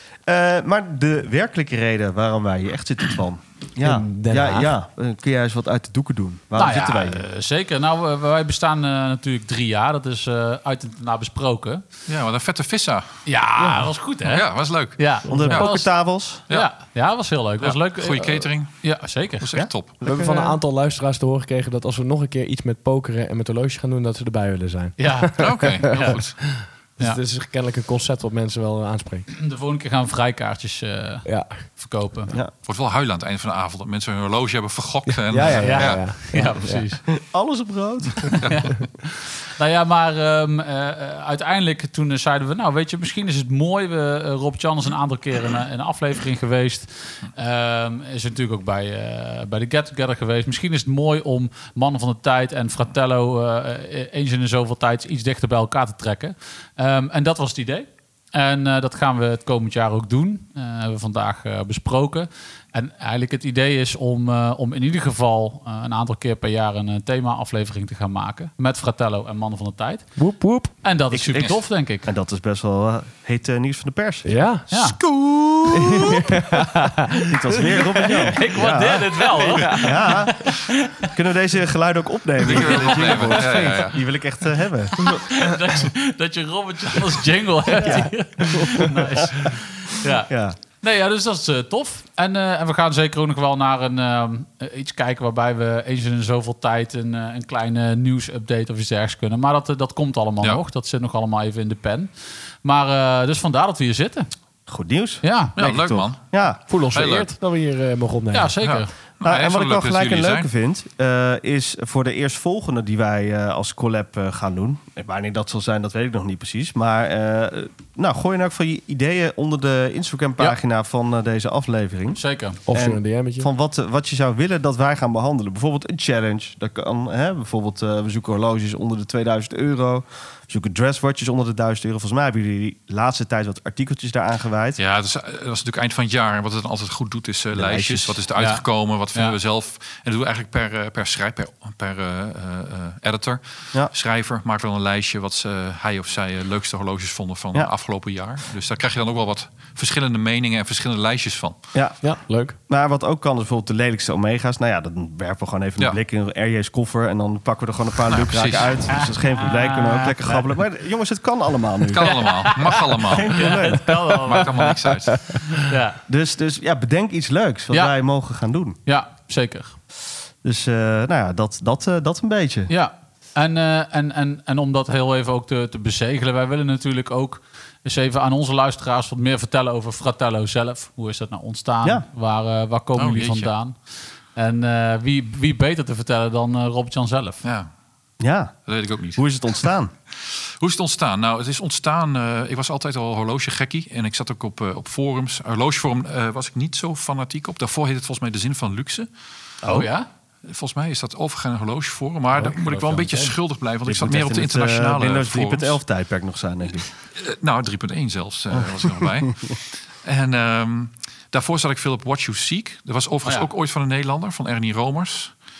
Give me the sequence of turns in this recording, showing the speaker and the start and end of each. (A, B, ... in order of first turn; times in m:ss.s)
0:00.2-0:07.3 A
0:03.8-0:04.8 B
0:06.6-0:11.8 C
0:12.1-0:13.2 D
0:13.3-0:15.9 C
0:13.6-0:13.8 A
0:14.2-0:15.8 D
0:15.3-0:15.6 B
0:15.3-0:16.4 A
0:16.5-0:19.5 C
0:17.6-0:20.0 D
0:19.6-0:20.5 A
0:20.0-0:29.3 B
0:25.0-0:27.2 C
0:25.4-0:26.4 D
0:29.3-0:32.4 C
0:31.2-0:31.7 B
0:32.6-0:36.1 D
0:35.1-0:36.9 B
0:35.5-0:37.0 C
0:37.2-0:38.4 A
0:38.4-1:10.2 C
0:38.4-0:38.8 D
1:10.2-1:10.8 B
1:10.8-1:12.1 C
1:11.1-1:14.3 A
1:14.2-1:15.0 B
1:14.7-1:15.0 C
1:14.7-1:16.1 D
1:15.7-1:18.4 B
1:17.3-1:19.3 A
1:18.0-1:21.1 C
1:19.4-1:20.2 B
1:19.8-1:25.4 A
1:22.4-1:24.0 D
1:25.0-1:44.3 C
1:27.8-1:29.5 A
1:30.3-1:30.6 A
1:44.7-1:46.6 A
1:45.2-1:45.6 C
1:45.6-1:47.3 D
1:46.7-1:48.5 B
1:48.3-1:48.9 C
1:48.6-1:50.5 D
1:49.2-2:14.8 A
2:02.1-2:02.6 C
2:02.7-2:03.5 B
2:14.8-2:31.6 D
2:17.5-2:18.2 A
2:18.4-2:19.4 C
2:31.7-2:32.1 A
2:32.0-2:32.6 B
2:32.7-2:42.5 A
2:38.1-2:38.9 D
2:38.9-2:40.4 C
2:41.9-2:43.8 D
2:42.0-2:44.7 C
2:43.0-2:44.2 A
2:44.3-2:45.4 D
2:44.5-2:45.4 B
2:45.6-2:46.0 C
2:46.1-2:48.8 A
2:48.8-2:49.8 C
2:50.4-2:52.7 A
2:52.7-3:07.4 C
3:03.0-3:03.5 D
3:07.4-3:07.7 D
3:08.2-3:09.9 A
3:08.7-3:09.7 D
3:10.3-3:19.1 D
3:19.6-3:19.9 A
3:19.7-3:20.1 C
3:20.4-3:25.8 D
3:22.3-3:23.3 C
3:23.9-3:26.9 A
3:27.2-3:35.3 D
3:28.5-3:29.2 A